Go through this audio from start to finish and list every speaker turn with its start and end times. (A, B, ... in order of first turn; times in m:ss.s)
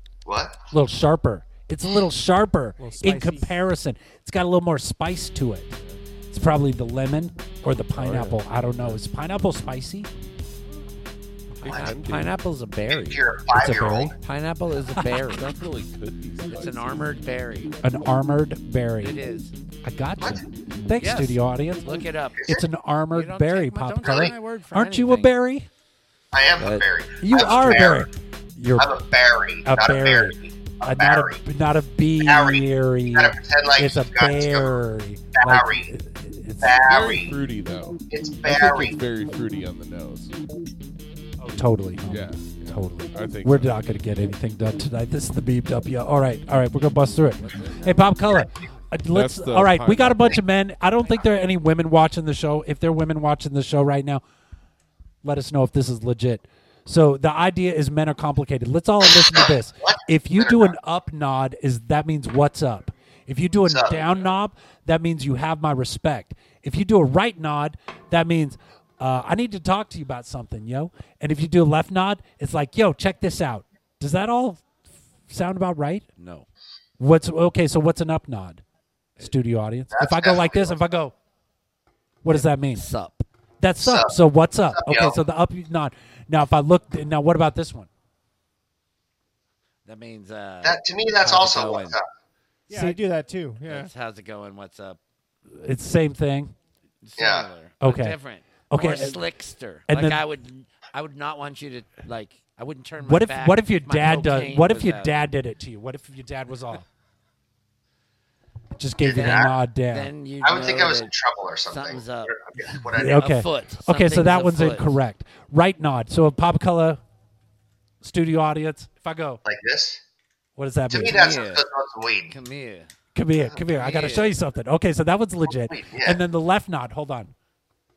0:00.2-0:00.6 A
0:00.7-0:05.8 B
0:02.8-0:03.6 C
0:06.3-0:10.1 B
0:08.0-0:09.0 D
0:11.6-0:12.4 D
0:11.7-0:13.2 E
0:12.9-0:14.2 A
0:13.5-0:14.1 B
0:14.2-0:15.5 E
0:15.3-0:17.1 D
0:16.5-0:17.8 E
0:17.8-0:19.2 B
0:19.0-0:19.5 E
0:19.8-0:25.7 B
0:21.0-0:22.5 E
0:22.4-0:22.6 A
0:23.1-0:25.3 E
0:24.0-0:24.3 A
0:26.3-0:28.1 A
0:26.6-0:26.9 E
0:27.2-0:28.9 B
0:28.8-0:31.4 A
0:29.6-0:36.8 B
0:32.2-0:34.8 A
0:35.4-0:35.9 A
0:36.6-0:37.4 A
0:36.9-0:40.3 D
0:38.1-0:39.0 A
0:41.4-0:54.2 B
0:42.1-0:43.8 D
0:47.4-0:48.1 E
0:49.1-0:50.4 D
0:55.2-1:14.7 B
0:59.0-1:00.8 A
1:03.7-1:04.0 A
1:15.3-1:16.1 B
1:16.2-1:16.5 E
1:17.0-1:18.6 B
1:19.2-1:21.1 B
1:19.9-1:20.8 A
1:22.2-1:22.9 B
1:22.3-1:23.2 E
1:23.6-1:27.9 B
1:23.8-1:24.2 A
1:24.7-1:25.2 A
1:29.9-1:32.0 E
1:30.6-1:32.0 A
1:32.7-1:33.9 C
1:32.7-1:33.0 B
1:33.6-1:35.0 E
1:35.5-1:36.5 B
1:37.0-1:45.2 E
1:37.2-1:37.5 A
1:37.8-1:38.2 B
1:38.7-1:39.2 B
1:39.9-1:40.2 B
1:43.0-1:46.8 B
1:48.8-1:50.1 B
1:49.0-1:49.6 A
1:49.1-1:51.1 E
1:50.4-1:53.4 A
1:51.7-1:55.0 E
1:52.9-1:57.0 B
1:58.0-1:59.4 B
1:59.4-2:00.0 A
2:00.6-2:01.2 B
2:00.9-2:02.4 A
2:01.1-2:01.7 E
2:02.3-2:02.9 E
2:03.1-2:07.3 B
2:03.8-2:04.4 E
2:05.5-2:06.2 A